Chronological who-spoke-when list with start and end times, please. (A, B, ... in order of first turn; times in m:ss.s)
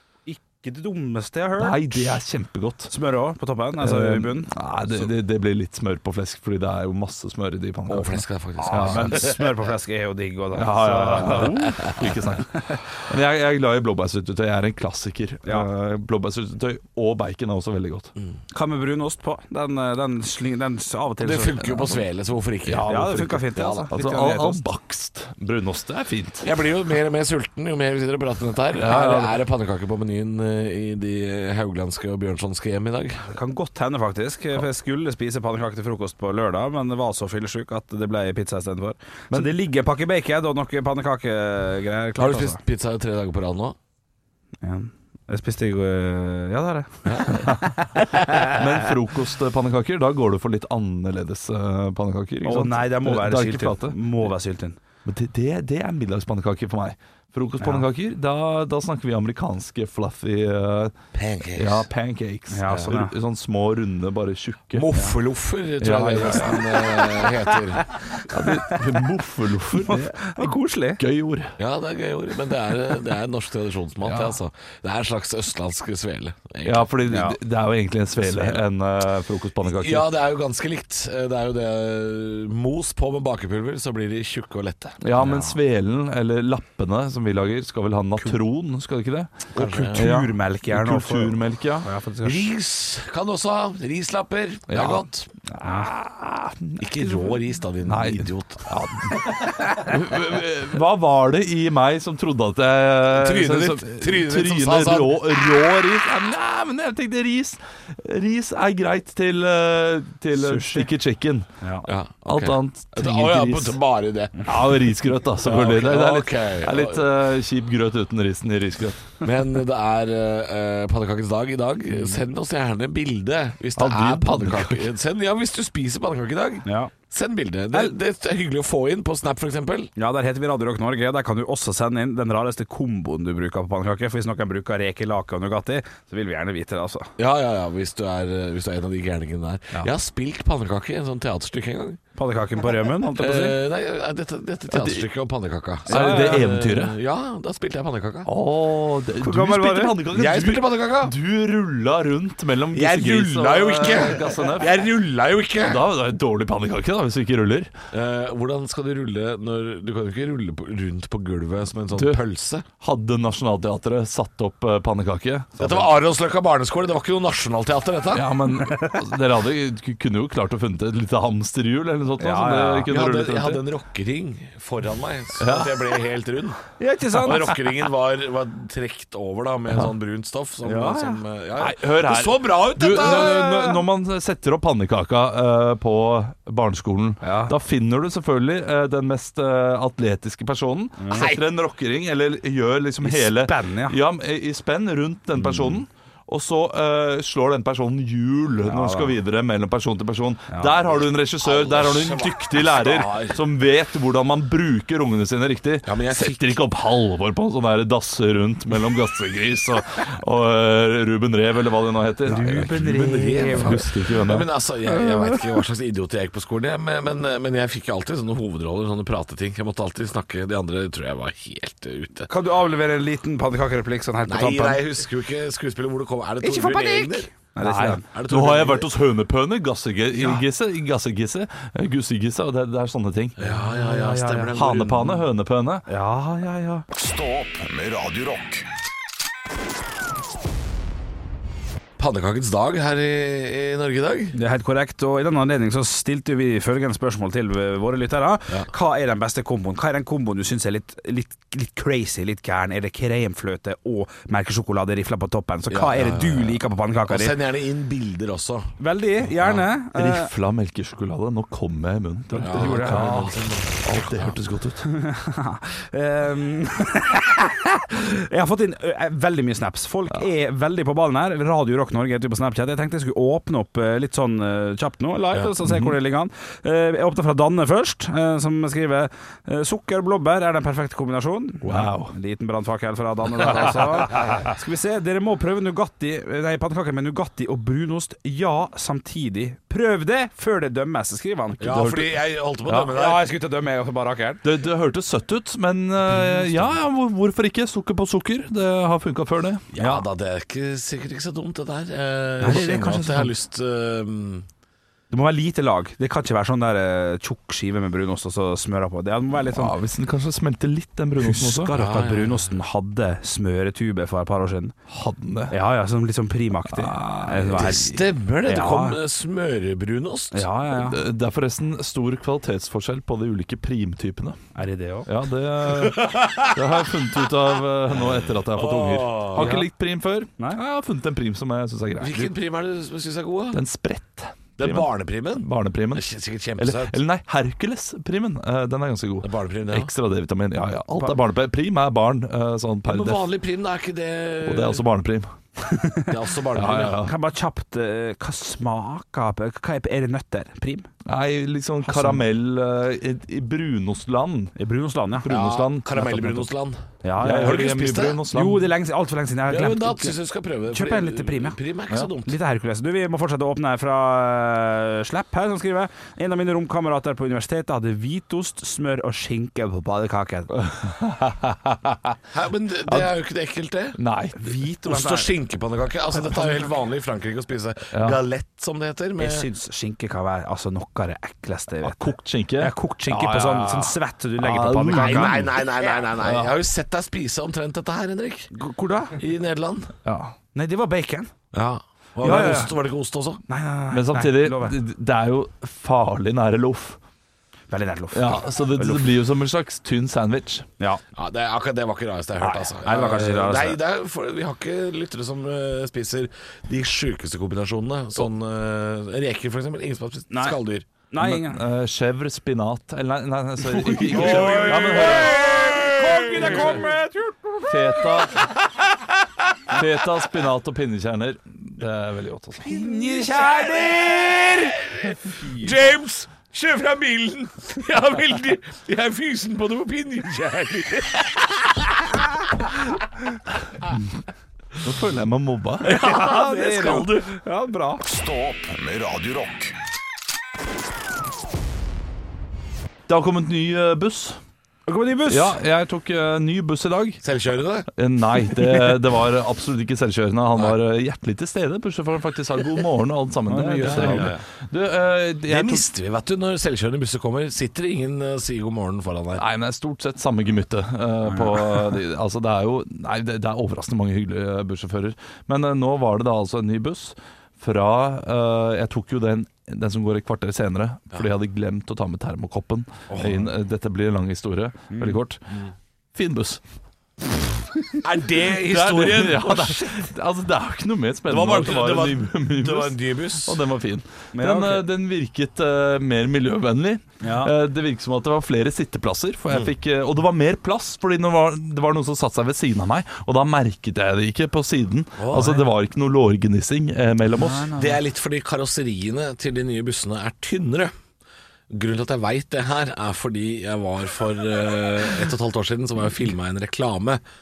0:00.3-0:02.2 A
0:01.6-0:02.9 B
0:02.9-0:04.5 A
0:03.8-0:09.3 B
0:07.9-0:09.4 C
0:08.6-0:11.9 A
0:10.5-0:18.1 B
0:18.5-0:21.9 A
0:21.2-0:23.0 C
0:22.6-0:26.5 B
0:22.8-0:24.6 A
0:23.5-0:23.9 C
0:26.4-0:33.2 C
0:28.8-0:29.4 B
0:33.3-0:42.6 A
0:42.2-0:43.8 C
0:44.6-0:48.7 A
0:47.0-0:47.5 C
0:48.2-0:54.3 B
0:52.4-0:54.8 A
0:55.0-1:00.9 B
0:57.6-0:57.8 A
1:01.1-1:01.8 C
1:01.6-1:04.9 B
1:02.5-1:03.1 A
1:04.7-1:07.9 C
1:05.8-1:07.3 B
1:08.2-1:11.5 B
1:08.2-1:08.8 A
1:09.8-1:11.0 A
1:11.6-1:16.9 C
1:14.0-1:14.3 B
1:16.6-1:20.1 B
1:17.1-1:17.4 A
1:19.6-1:25.1 C
1:25.0-1:31.9 B
1:29.5-1:30.0 C
1:29.5-1:32.5 A
1:32.2-1:35.3 C
1:34.7-1:35.0 B
1:35.5-1:35.9 A
1:35.6-1:51.6 B
1:36.8-1:38.7 C
1:43.1-1:45.2 C
1:50.3-1:50.9 A
1:51.6-1:51.9 A
1:51.8-1:54.5 C
1:52.2-1:53.8 B
1:54.4-1:59.2 B
1:55.4-1:57.0 C
1:59.2-2:09.9 C
2:03.8-2:04.9 B
2:06.6-2:06.9 A
2:10.0-2:17.1 A
2:17.2-2:22.0 C
2:22.2-2:23.6 A
2:23.2-2:28.3 C
2:24.7-2:25.1 B
2:25.9-2:26.5 A
2:25.9-2:26.9 B
2:28.2-2:34.8 B
2:29.2-2:30.0 A
2:30.1-2:31.1 C
2:32.7-2:35.8 C
2:35.6-2:37.7 B
2:37.9-2:42.6 C
2:41.9-2:42.2 B
2:42.8-2:45.9 B
2:45.6-2:48.3 C
2:48.1-2:53.6 B
2:48.7-2:49.0 A
2:52.2-2:52.9 A
2:52.9-2:56.6 C
2:55.4-2:56.0 B
2:56.8-2:57.6 A
2:57.2-3:03.4 C
3:00.6-3:01.2 A
3:01.6-3:34.5 B
3:02.8-3:03.8 A
3:07.2-3:07.5 A
3:11.0-3:11.3 A
3:11.1-3:11.4 C
3:13.0-3:14.0 A
3:15.4-3:15.8 A
3:18.6-3:19.2 A
3:20.5-3:20.8 A
3:21.4-3:23.4 C
3:25.8-3:26.6 C
3:32.2-3:33.9 A
3:32.8-3:42.3 C
3:42.3-3:44.8 A
3:44.3-3:47.3 C
3:46.4-3:48.0 A
3:47.6-3:53.4 B
3:48.1-3:48.9 C
3:53.4-3:55.2 C
3:53.4-3:54.6 A
3:54.5-3:55.8 B
3:55.9-3:56.8 A
3:56.9-3:58.6 D
4:02.0-4:04.4 C
4:04.3-4:17.4 A
4:15.7-4:18.8 C
4:18.8-4:20.3 A
4:19.9-4:24.9 B
4:22.3-4:23.3 A
4:22.4-4:24.3 C
4:24.9-4:52.1 A
4:35.6-4:35.9 B
4:41.6-4:42.1 B
4:43.6-4:44.4 C
4:51.6-4:53.2 C
4:52.6-4:54.4 A
4:54.4-5:00.0 B
4:56.1-4:56.7 A
4:59.7-5:04.4 C
5:02.4-5:03.3 A
5:02.4-5:02.9 B
5:05.1-5:09.7 A
5:09.4-5:11.7 B
5:11.2-5:14.7 A
5:11.7-5:12.5 C
5:14.9-5:15.5 B
5:15.5-5:19.0 A
5:16.7-5:18.0 B
5:17.6-5:20.4 C
5:20.3-5:21.0 A
5:20.7-5:24.4 B
5:24.5-5:25.1 A
5:25.1-5:32.3 B
5:25.8-5:26.5 C
5:27.9-5:29.6 C
5:29.4-5:29.7 A
5:32.0-5:33.6 C
5:33.5-5:36.0 B
5:34.6-5:37.0 C
5:36.6-5:43.2 B
5:39.2-5:39.9 C
5:42.9-5:44.8 C
5:44.4-5:45.3 B
5:45.6-5:46.1 A
5:46.1-5:47.0 C
5:46.5-5:47.1 B
5:47.0-5:50.9 A
5:51.0-5:54.5 B
5:51.8-5:52.2 A
5:54.6-5:55.3 A
5:55.2-5:56.5 B
5:55.3-5:58.2 C
5:57.0-5:57.7 A
5:57.2-5:58.6 B
5:58.3-6:00.2 A
5:59.5-6:02.4 C
6:00.7-6:01.6 A
6:02.2-6:10.5 A
6:10.6-6:12.2 B
6:12.3-6:14.0 C
6:12.8-6:13.1 B
6:14.0-6:14.5 B
6:14.4-6:15.3 A
6:14.8-6:19.5 C
6:16.1-6:16.7 A
6:17.9-6:18.2 B
6:19.2-6:25.5 A
6:21.8-6:25.6 B
6:24.9-6:28.5 C
6:26.2-6:26.5 B
6:28.5-6:29.2 A
6:29.2-6:29.9 C
6:30.0-6:31.3 A
6:31.5-6:33.4 C
6:32.2-6:32.7 A
6:32.2-6:32.6 B
6:33.5-6:34.8 A
6:33.9-6:37.0 B
6:37.7-6:39.1 A
6:38.1-6:40.7 B
6:41.1-6:50.8 C
6:42.4-6:43.8 A
6:50.3-6:50.6 A
6:51.1-6:51.6 A
6:51.2-6:55.6 B
6:53.8-6:58.0 A
6:54.0-6:56.9 C
6:56.3-6:56.8 B
6:57.6-6:58.5 B
6:59.7-7:02.7 B
7:02.6-7:05.7 A
7:02.7-7:04.6 C
7:05.1-7:12.2 C
7:14.8-7:15.9 B
7:15.8-7:17.3 C
7:15.8-7:18.0 A
7:18.0-7:19.7 D
7:23.1-7:24.4 B
7:24.9-7:25.6 A
7:25.3-7:27.2 B
7:27.2-7:27.9 C
7:27.9-7:35.8 B
7:33.5-7:34.4 A
7:33.8-7:34.4 C
7:35.5-7:39.4 C
7:39.4-7:55.4 B
7:41.3-7:41.8 A
7:53.1-7:53.4 C
7:54.9-7:55.2 A
7:56.1-7:56.6 B
7:58.0-7:59.8 C
7:58.5-8:17.7 B
8:01.3-8:03.6 C
8:04.3-8:04.9 A
8:07.2-8:07.5 A
8:15.2-8:15.6 C
8:17.4-8:18.0 A
8:17.7-8:20.9 C
8:21.7-8:27.2 C